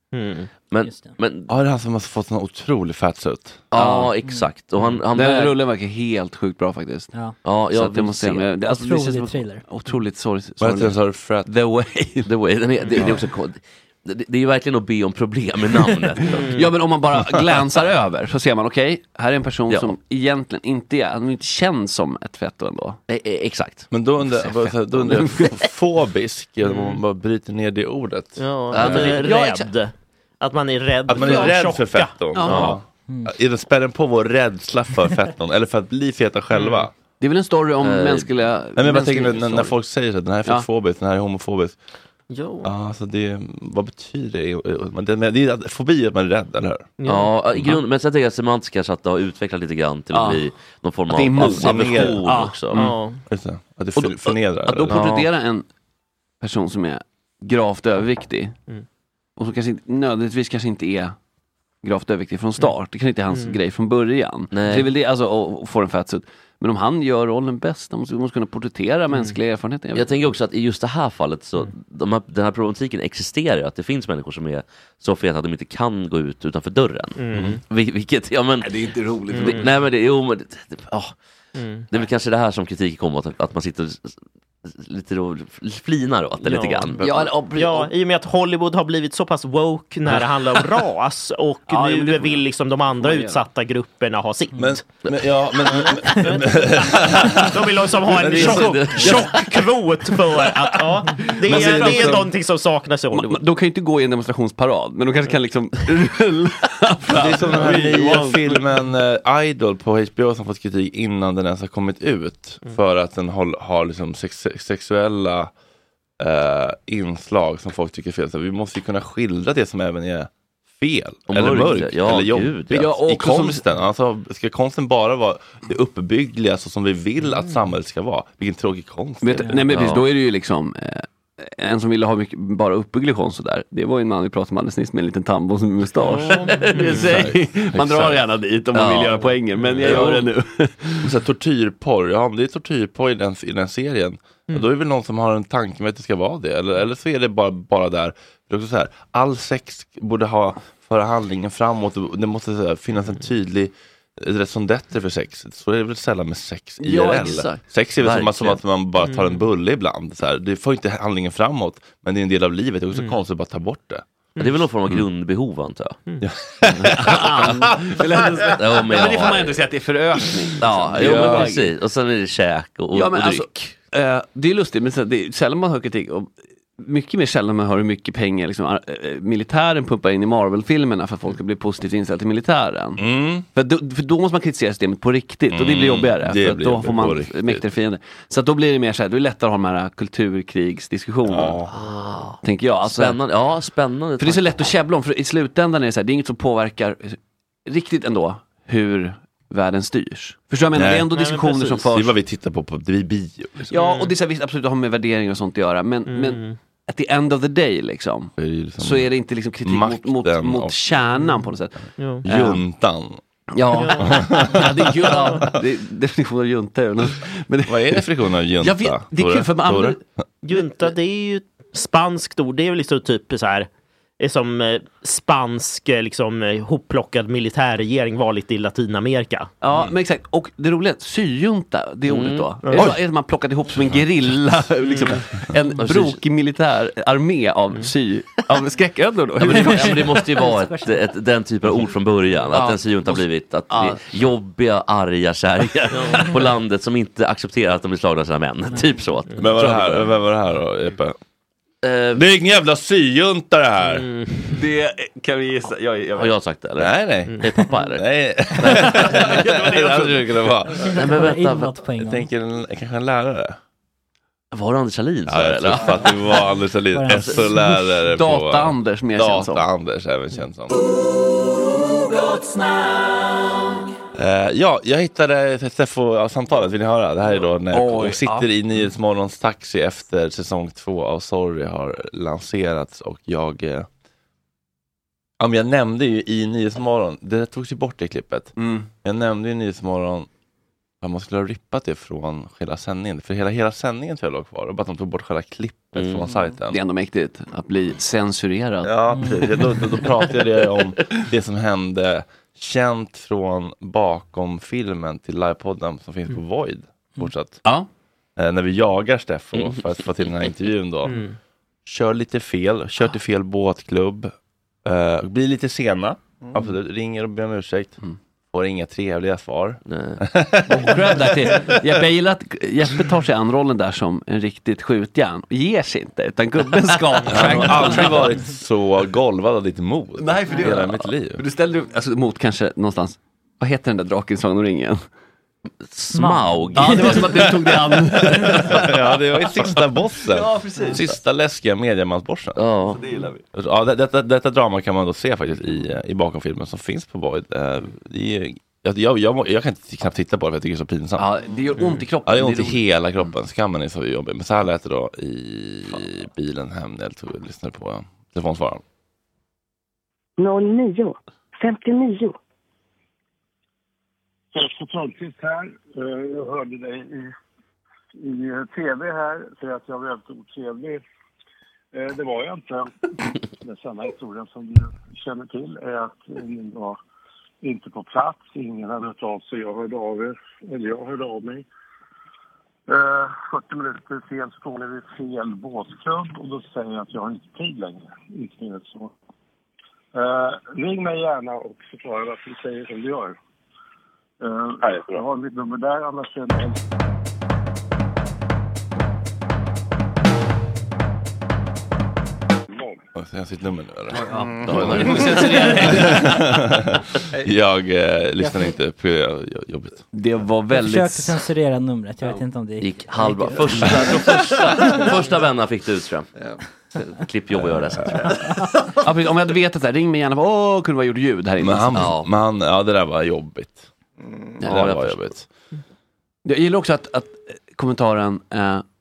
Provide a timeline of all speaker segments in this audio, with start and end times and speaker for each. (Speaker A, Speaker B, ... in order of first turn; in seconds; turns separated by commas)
Speaker A: 0.1-0.5, Speaker B: 0.7-1.5, Speaker C: 0.8-1.1, Speaker D: 1.5-3.6, Speaker B: 3.7-5.6, Speaker E: 3.7-4.1, Speaker E: 4.8-7.1, Speaker B: 7.4-8.6, Speaker E: 7.7-12.3, Speaker C: 8.7-9.6, Speaker D: 10.6-11.5, Speaker B: 12.2-16.4, Speaker E: 12.9-13.2, Speaker E: 15.7-23.0, Speaker A: 16.2-16.7, Speaker B: 19.7-20.0, Speaker B: 23.1-23.9, Speaker D: 23.9-29.2, Speaker E: 24.3-25.6, Speaker A: 26.6-27.0, Speaker A: 28.4-32.2, Speaker B: 28.7-29.2, Speaker E: 28.8-29.7, Speaker D: 31.1-36.9, Speaker E: 31.1-31.6, Speaker E: 32.3-32.8, Speaker B: 32.5-32.8, Speaker C: 33.1-33.3, Speaker A: 36.5-36.9, Speaker E: 37.2-39.8, Speaker B: 37.8-38.3, Speaker D: 38.8-41.8, Speaker A: 42.3-42.7, Speaker D: 42.6-46.9, Speaker A: 47.0-47.4, Speaker B: 47.1-52.9, Speaker E: 50.1-50.5, Speaker E: 51.1-53.0, Speaker D: 51.4-52.4, Speaker A: 52.7-53.2, Speaker D: 53.3-55.0, Speaker E: 54.0-55.6, Speaker B: 54.9-55.3, Speaker E: 56.4-58.5, Speaker E: 59.4-61.2, Speaker E: 61.8-70.2, Speaker A: 63.3-63.6, Speaker B: 64.5-64.9, Speaker B: 69.9-78.8, Speaker A: 77.2-77.6, Speaker E: 78.6-79.7, Speaker A: 79.3-79.7, Speaker B: 79.4-81.2, Speaker A: 81.6-81.9, Speaker B: 81.9-87.3, Speaker A: 86.4-87.0, Speaker E: 87.0-87.9, Speaker A: 87.5-94.8, Speaker E: 91.7-92.5, Speaker E: 93.0-93.4, Speaker D: 94.6-99.2, Speaker A: 95.7-103.4, Speaker E: 98.3-102.3, Speaker B: 98.3-99.5, Speaker D: 101.5-102.3, Speaker E: 103.1-108.7, Speaker D: 107.1-115.5, Speaker D: 116.2-129.6, Speaker B: 121.3-122.9, Speaker E: 122.7-123.7, Speaker A: 127.2-127.6, Speaker E: 129.2-141.1, Speaker B: 129.7-130.1, Speaker A: 136.1-137.1, Speaker D: 136.9-138.2, Speaker B: 138.7-139.3, Speaker B: 139.8-140.3, Speaker D: 141.0-164.1, Speaker E: 156.8-157.4, Speaker B: 157.1-158.6, Speaker A: 159.0-159.4, Speaker A: 164.4-164.7, Speaker B: 164.4-166.0, Speaker D: 166.2-167.6, Speaker E: 166.8-171.7, Speaker B: 168.5-169.7, Speaker B: 170.6-173.5, Speaker D: 170.9-171.5, Speaker E: 172.9-183.0, Speaker D: 183.0-183.4, Speaker E: 183.6-191.6, Speaker D: 185.5-187.7, Speaker D: 191.3-191.7, Speaker B: 191.7-194.7, Speaker E: 192.4-193.2, Speaker E: 194.2-202.1, Speaker D: 200.7-201.1, Speaker A: 201.2-201.7, Speaker D: 201.8-203.7, Speaker E: 203.7-212.6, Speaker A: 203.7-204.1, Speaker A: 206.1-206.6, Speaker D: 208.4-209.1, Speaker D: 209.6-210.8, Speaker A: 212.0-212.3, Speaker D: 212.2-213.2, Speaker E: 213.5-218.1, Speaker A: 213.7-215.5, Speaker D: 214.0-215.2, Speaker D: 217.7-220.2, Speaker E: 218.6-220.0, Speaker A: 220.4-223.7, Speaker A: 224.2-229.5, Speaker E: 229.6-240.4, Speaker B: 232.1-232.5, Speaker A: 232.6-232.9, Speaker B: 235.8-236.2, Speaker B: 239.4-250.1, Speaker C: 239.5-241.1, Speaker E: 242.5-244.2, Speaker A: 245.9-246.3, Speaker D: 249.4-251.2, Speaker B: 251.8-252.2, Speaker D: 252.2-254.1, Speaker A: 253.8-254.6, Speaker E: 254.5-256.3, Speaker B: 256.2-258.1, Speaker D: 256.8-260.9, Speaker A: 257.3-257.6, Speaker E: 258.6-260.5, Speaker C: 260.7-262.3, Speaker B: 260.9-261.8, Speaker D: 262.0-263.6, Speaker B: 264.5-266.2, Speaker D: 265.3-270.8, Speaker C: 266.9-267.7, Speaker E: 268.0-269.7, Speaker D: 274.1-283.9, Speaker E: 277.7-278.5, Speaker D: 285.4-290.3, Speaker E: 288.6-288.9, Speaker D: 291.0-296.8, Speaker B: 295.9-296.3, Speaker E: 296.7-298.9, Speaker D: 298.8-307.6, Speaker C: 299.1-299.5, Speaker D: 308.4-311.2, Speaker A: 311.1-311.4, Speaker D: 311.9-314.3, Speaker D: 314.9-318.0, Speaker D: 318.5-321.8, Speaker B: 319.9-320.2, Speaker E: 320.7-328.4, Speaker D: 327.3-331.4, Speaker E: 330.2-335.0, Speaker B: 335.8-337.4, Speaker C: 336.1-337.2, Speaker E: 336.7-341.1, Speaker D: 338.3-342.6, Speaker B: 342.6-343.0, Speaker E: 342.9-343.4, Speaker D: 343.5-351.3, Speaker E: 351.2-353.3, Speaker D: 352.2-358.8, Speaker F: 360.4-362.4, Speaker G: 364.5-367.3, Speaker G: 368.2-371.0, Speaker G: 371.9-373.1, Speaker G: 373.6-377.0, Speaker G: 377.6-381.7, Speaker G: 382.9-389.1, Speaker G: 390.1-393.4, Speaker G: 394.4-396.8, Speaker G: 402.7-403.0, Speaker D: 403.2-410.1, Speaker E: 404.4-406.4, Speaker B: 404.6-405.6, Speaker C: 408.4-408.7, Speaker E: 410.1-411.4, Speaker C: 410.7-414.0, Speaker B: 412.8-416.3, Speaker E: 413.8-414.2, Speaker B: 417.0-418.4, Speaker D: 417.7-418.0, Speaker E: 419.0-422.1, Speaker D: 421.6-423.8, Speaker B: 421.9-422.3, Speaker D: 424.6-425.4, Speaker B: 424.6-425.3, Speaker E: 426.4-428.8